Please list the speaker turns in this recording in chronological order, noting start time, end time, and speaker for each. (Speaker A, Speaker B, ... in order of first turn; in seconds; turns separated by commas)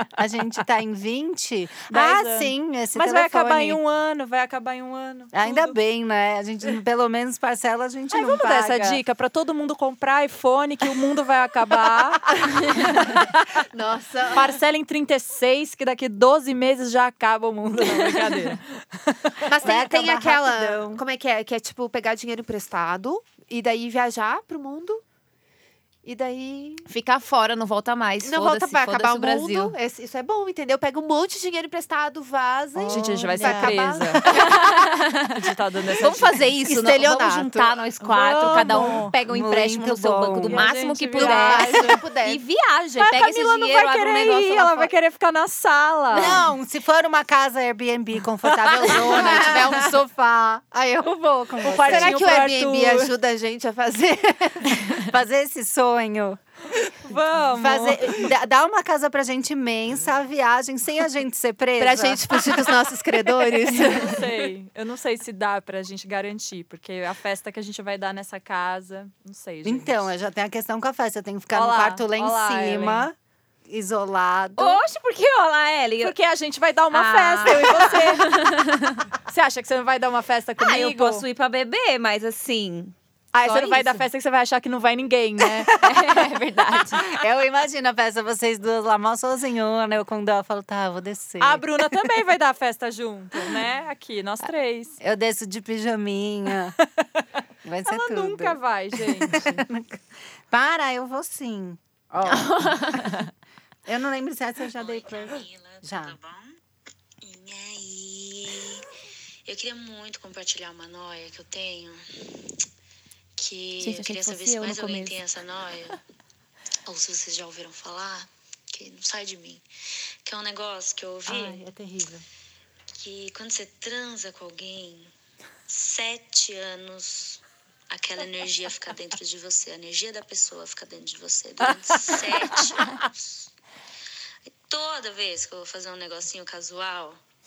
Speaker A: 0.2-3.8, Speaker B: 1.9-5.8, Speaker A: 5.3-9.0, Speaker B: 8.1-13.5, Speaker C: 12.4-13.2, Speaker C: 13.7-14.5, Speaker B: 14.3-19.4, Speaker C: 19.4-25.0, Speaker A: 19.6-21.0, Speaker C: 26.1-26.9, Speaker D: 26.9-29.8, Speaker C: 28.2-34.6, Speaker A: 32.8-34.4, Speaker B: 32.9-34.2, Speaker D: 34.2-35.4, Speaker B: 35.3-36.4, Speaker D: 36.0-44.9, Speaker C: 36.7-37.8, Speaker B: 38.1-39.1, Speaker A: 38.4-40.7, Speaker B: 40.4-42.0, Speaker C: 41.2-42.4, Speaker B: 43.0-46.5, Speaker A: 46.1-52.3, Speaker B: 48.6-49.5, Speaker C: 48.8-50.0, Speaker B: 51.6-53.1, Speaker C: 51.7-54.9, Speaker A: 54.8-56.4, Speaker B: 57.0-58.2, Speaker A: 57.5-64.1, Speaker C: 61.8-64.3, Speaker B: 63.8-70.1, Speaker A: 69.6-73.2, Speaker B: 71.5-73.1, Speaker A: 73.7-74.8, Speaker D: 74.6-76.1, Speaker B: 76.0-78.3, Speaker D: 76.9-79.0, Speaker B: 79.3-81.2, Speaker D: 80.6-84.0, Speaker B: 83.3-85.8, Speaker D: 85.7-87.0, Speaker A: 87.1-92.1, Speaker B: 91.4-95.0, Speaker A: 95.0-96.8, Speaker A: 97.7-103.2, Speaker B: 97.9-99.7, Speaker D: 102.3-103.3, Speaker A: 103.9-106.2, Speaker E: 104.8-106.4, Speaker E: 107.2-108.9, Speaker E: 109.5-112.0, Speaker E: 113.4-116.0, Speaker D: 113.8-115.2, Speaker E: 116.9-119.7, Speaker E: 120.2-121.6, Speaker A: 121.3-122.2, Speaker E: 122.9-125.1, Speaker E: 125.7-133.4, Speaker B: 131.8-133.0, Speaker E: 134.7-137.2